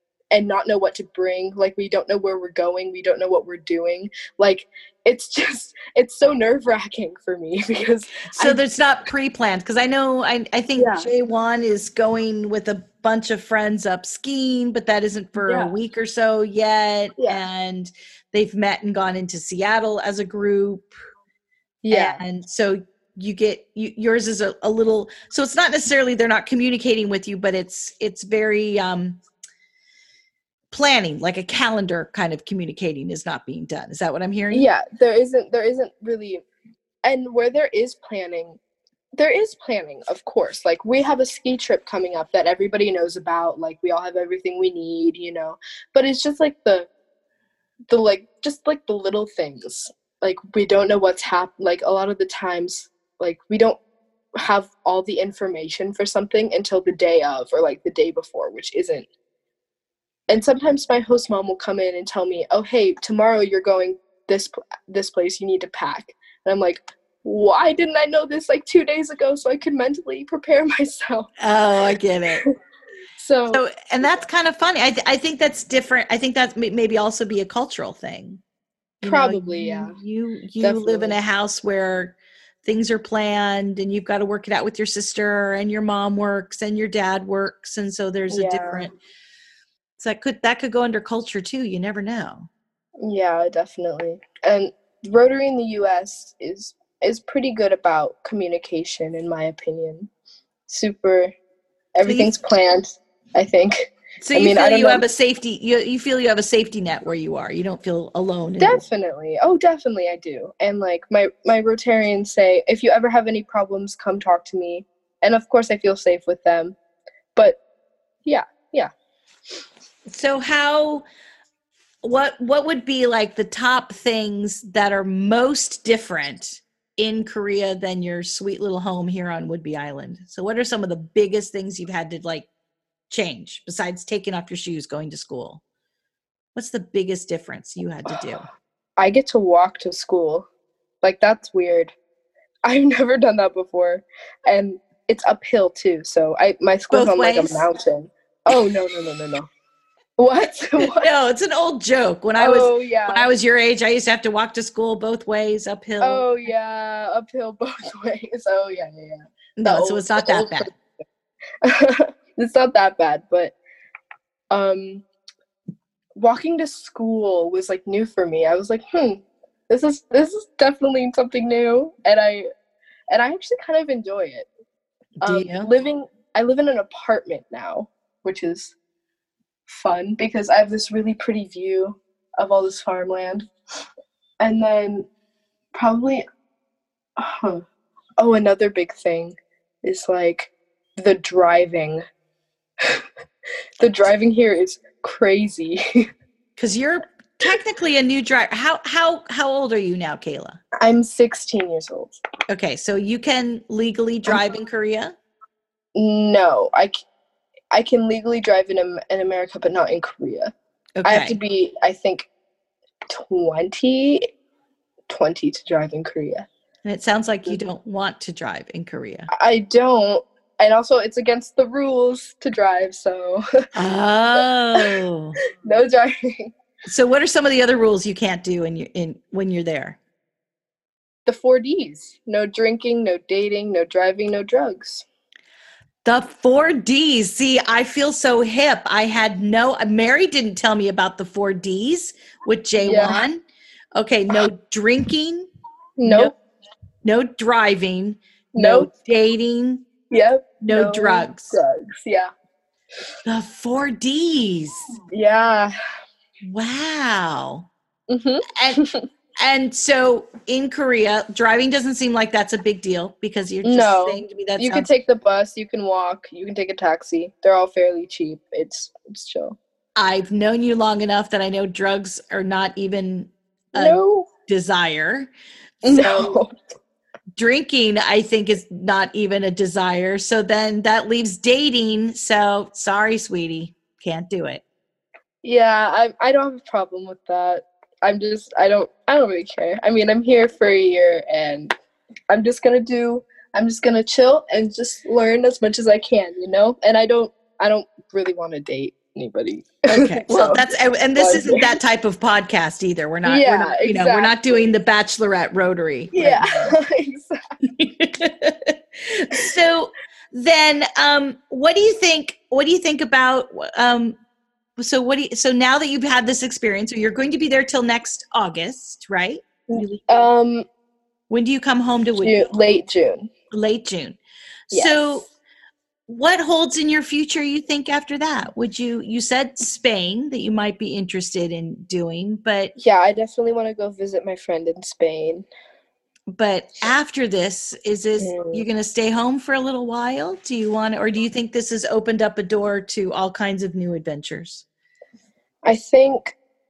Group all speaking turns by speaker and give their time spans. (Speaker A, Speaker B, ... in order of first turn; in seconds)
Speaker A: 0.3-8.6, 10.8-11.1, 15.4-15.7, 17.2-17.4, 21.8-22.2, 34.5-36.5, 37.0-38.6, 39.1-46.9, 47.9-53.8, 54.4-59.1, 60.3-71.3, 73.2-73.6, 79.0-80.0, 80.6-81.2, 88.3-88.9, 93.0-100.1, 100.7-101.3, 102.0-105.0, 108.6-116.8, 118.2-118.9, 139.0-140.5, 141.0-141.9, 142.6-149.5, 150.2-151.1, 152.4-153.3, 156.0-160.8, 161.6-163.5, 164.5-165.0, 166.2-172.5, 173.1-174.5, 175.2-178.7, 179.7-183.5, 184.4-185.1, 185.7-186.2, 187.2-187.6, 188.2-192.0, 193.8-196.1, 200.8-202.2, 205.9-206.9, 207.7-210.5, 211.0-212.3, 213.1-214.3, 215.1-216.5, 219.3-223.4, 225.5-226.5, 231.2-235.0, 242.8-243.2, 246.0-246.3, 248.5-248.9, 250.1-252.3, 255.1-255.7, 258.1-259.0, 263.6-269.6, 273.7-274.3, 275.8-276.5, 285.4-291.7, 292.3-301.7, 303.2-304.6, 306.1-307.4, 319.7-320.7, 322.2-323.3, 324.7-325.3, 332.8-335.4, 338.2-338.6, 345.6-346.4
Speaker B: 8.3-20.9, 21.9-29.2, 30.7-34.7, 71.4-72.4, 73.5-78.4, 79.0-88.9, 90.0-92.5, 102.0-102.3, 104.2-108.8, 120.0-121.0, 122.0-132.5, 133.1-135.6, 136.5-138.4, 146.9-147.7, 150.9-156.2, 159.6-160.7, 175.2-175.7, 196.6-200.6, 202.5-205.2, 211.0-211.4, 216.8-219.3, 223.7-225.4, 226.9-230.0, 236.0-243.4, 243.9-245.5, 246.0-246.3, 247.0-249.9, 250.6-251.6, 253.2-254.9, 256.4-257.7, 258.6-258.8, 259.4-264.9, 270.0-275.3, 275.8-276.4, 277.4-284.6, 299.9-306.7, 307.6-314.2, 314.8-320.3, 321.3-322.5, 323.5-324.2, 324.7-325.3, 326.1-332.7, 336.3-344.6